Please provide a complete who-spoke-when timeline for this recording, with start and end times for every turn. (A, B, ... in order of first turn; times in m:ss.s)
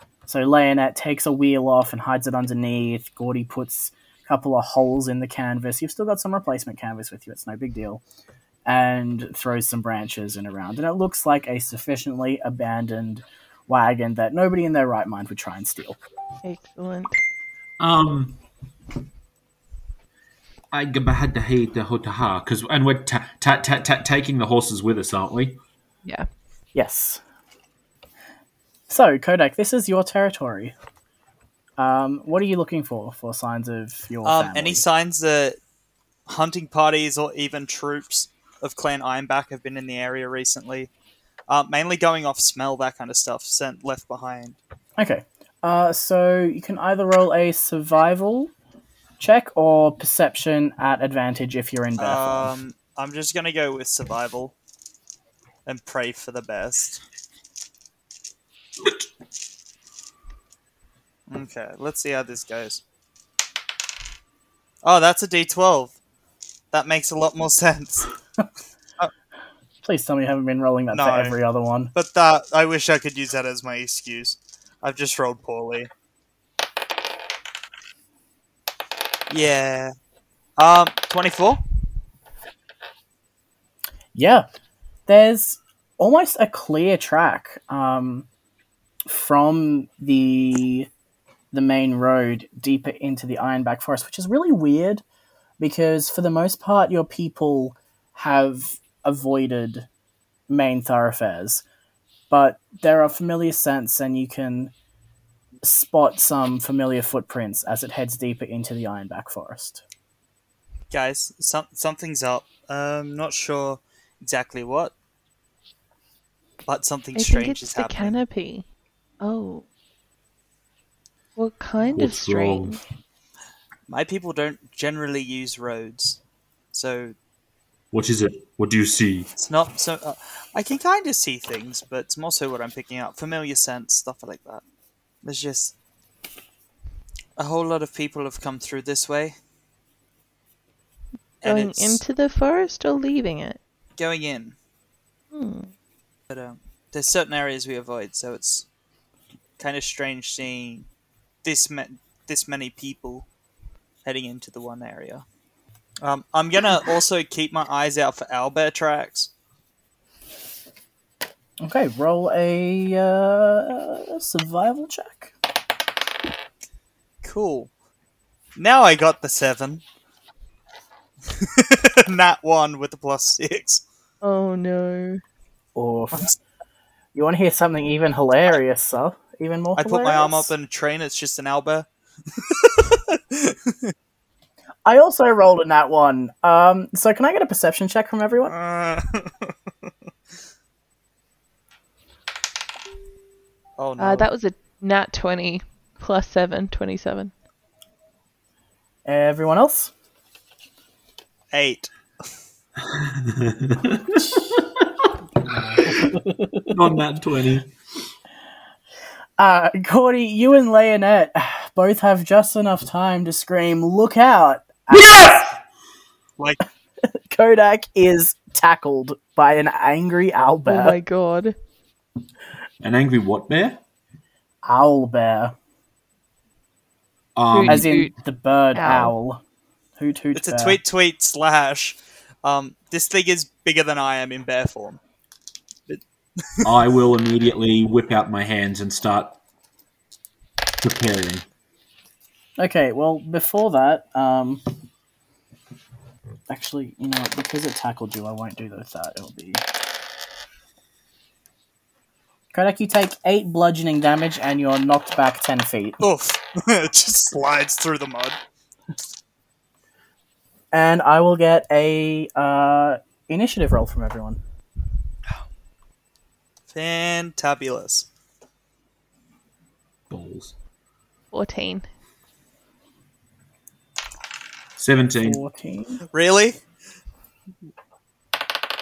0:00.2-0:08.0 A
0:08.6-0:16.0 A
0:16.4-0:17.2 B
0:17.8-0:18.4 C
0:20.7-0:25.6 C
0:26.7-0:27.2 A
0:28.9-0:30.7 A
0:31.8-0:34.8 A
0:34.2-0:35.6 D
0:36.3-0:40.9 D
0:41.5-0:44.6 D
0:45.0-0:48.5 A
0:49.2-0:52.5 A
0:52.0-0:54.5 D
0:55.6-0:57.0 D
1:01.3-1:02.8 D
1:04.8-1:06.0 D
1:06.7-1:08.1 D
1:09.8-1:11.9 A
1:10.9-1:11.4 D
1:11.9-1:15.9 D
1:19.3-1:19.9 D
1:20.6-1:21.6 D
1:24.1-1:24.5 A
1:25.1-1:28.3 A
1:29.0-1:30.9 A
1:31.5-1:35.0 A
1:35.6-1:39.9 A
1:40.5-1:41.6 A
1:42.3-1:44.7 A
1:45.6-1:49.8 A
1:50.9-1:54.9 D
1:56.6-1:58.2 D
1:57.1-1:58.6 B
1:59.2-1:59.6 B
2:01.4-2:02.8 B
2:01.9-2:02.8 C
2:03.9-2:06.2 D
2:06.7-2:07.1 D
2:07.9-2:09.3 C
2:09.4-2:14.6 D
2:15.2-2:15.7 D
2:17.4-2:19.3 D
2:21.4-2:22.0 D
2:21.4-2:23.6 B
2:24.0-2:24.6 D
2:25.3-2:25.7 B
2:26.3-2:28.6 D
2:29.6-2:30.9 D
2:31.4-2:33.2 D
2:34.0-2:35.2 D
2:36.0-2:39.3 D
2:41.6-2:45.3 A
2:47.2-2:47.7 D
2:48.6-2:49.8 D
2:51.3-2:53.8 D
2:54.2-2:55.2 B
2:55.8-2:56.3 A
2:57.1-3:00.5 A
2:59.8-3:03.9 D
3:04.8-3:08.5 A
3:08.5-3:09.5 D
3:13.8-3:14.3 D
3:14.0-3:17.3 B
3:19.0-3:19.9 A
3:21.5-3:21.9 D
3:22.8-3:26.1 C
3:25.8-3:26.6 A
3:26.7-3:27.7 C
3:29.4-3:35.5 A
3:34.9-3:35.6 C
3:37.3-3:41.0 A
3:40.6-3:41.5 B
3:42.8-3:43.8 C
3:44.6-3:45.5 A
3:47.4-3:47.9 C
3:47.5-3:48.1 B
3:47.6-3:49.4 A
3:48.7-3:49.1 B
3:50.0-3:50.8 A
3:50.3-3:55.0 D
3:55.9-3:56.7 D
3:56.6-3:59.4 C
4:00.8-4:01.4 C
4:02.6-4:04.6 A
4:06.5-4:09.6 A
4:12.5-4:16.0 A
4:16.0-4:18.4 D
4:20.7-4:24.4 A
4:26.7-4:28.1 D
4:30.1-4:30.5 C
4:31.3-4:31.8 B
4:34.8-4:35.4 C
4:35.2-4:36.0 A
4:36.1-4:36.6 D